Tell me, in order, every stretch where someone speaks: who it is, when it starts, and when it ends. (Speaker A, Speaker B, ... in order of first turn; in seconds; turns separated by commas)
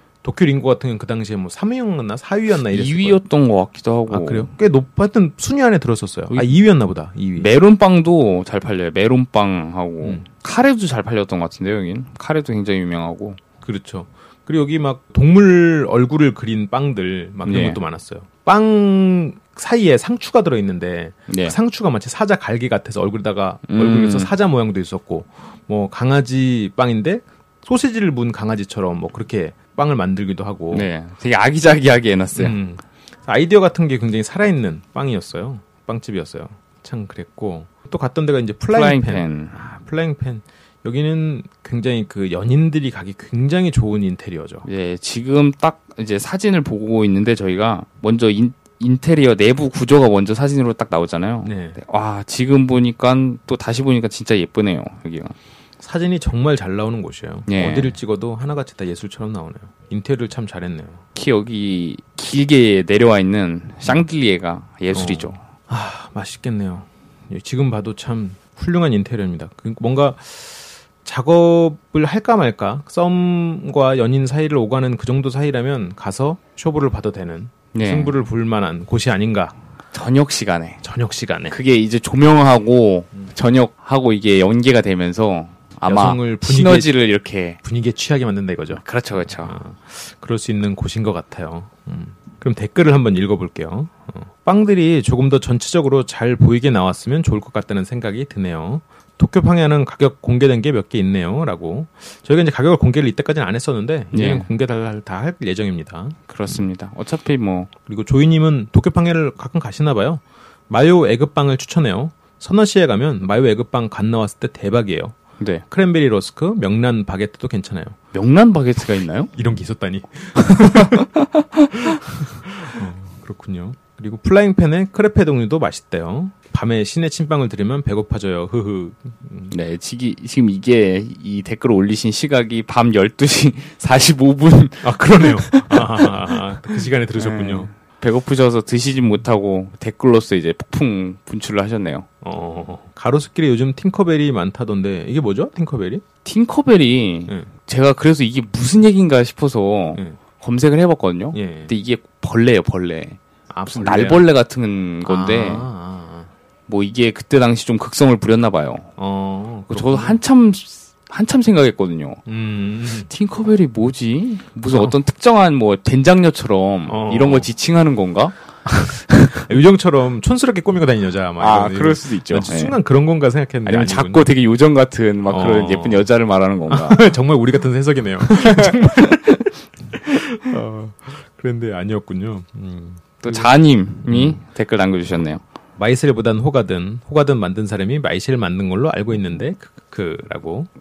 Speaker A: 0.2-3.2, Speaker B: 2.7-4.5, Speaker A: 4.1-7.5, Speaker B: 7.4-13.4, Speaker A: 13.6-30.9, Speaker B: 17.4-17.8, Speaker B: 21.3-21.6, Speaker B: 23.7-24.3, Speaker B: 30.7-32.6, Speaker A: 32.4-44.7, Speaker B: 38.7-39.6, Speaker B: 44.6-55.4, Speaker A: 51.4-51.8, Speaker A: 55.8-61.0, Speaker B: 57.5-58.0, Speaker B: 61.1-65.4, Speaker A: 64.9-79.5, Speaker B: 77.7-78.2, Speaker B: 79.9-80.8, Speaker A: 80.8-81.6, Speaker B: 81.5-87.6, Speaker A: 85.9-86.9, Speaker A: 87.6-106.6, Speaker B: 88.8-89.6, Speaker B: 104.1-104.5, Speaker B: 106.3-107.7, Speaker A: 107.9-115.2, Speaker A: 115.7-118.0, Speaker B: 118.1-119.3, Speaker A: 119.3-121.1, Speaker B: 120.4-122.0, Speaker A: 121.9-129.5, Speaker B: 129.5-142.1, Speaker A: 134.8-137.7, Speaker A: 142.2-146.0, Speaker B: 146.2-155.7, Speaker A: 151.3-151.7, Speaker A: 153.5-154.3, Speaker A: 155.1-156.3, Speaker B: 156.7-158.9, Speaker A: 159.0-160.2, Speaker B: 159.7-162.2, Speaker A: 162.3-163.1, Speaker B: 163.1-169.4, Speaker A: 164.7-165.0, Speaker A: 166.9-167.5, Speaker A: 169.4-174.3, Speaker B: 171.4-172.8, Speaker B: 173.7-177.1, Speaker A: 175.3-176.1, Speaker A: 176.7-179.4, Speaker B: 178.4-179.5, Speaker A: 179.9-183.5, Speaker B: 183.2-185.4, Speaker A: 184.1-184.4, Speaker A: 185.8-190.7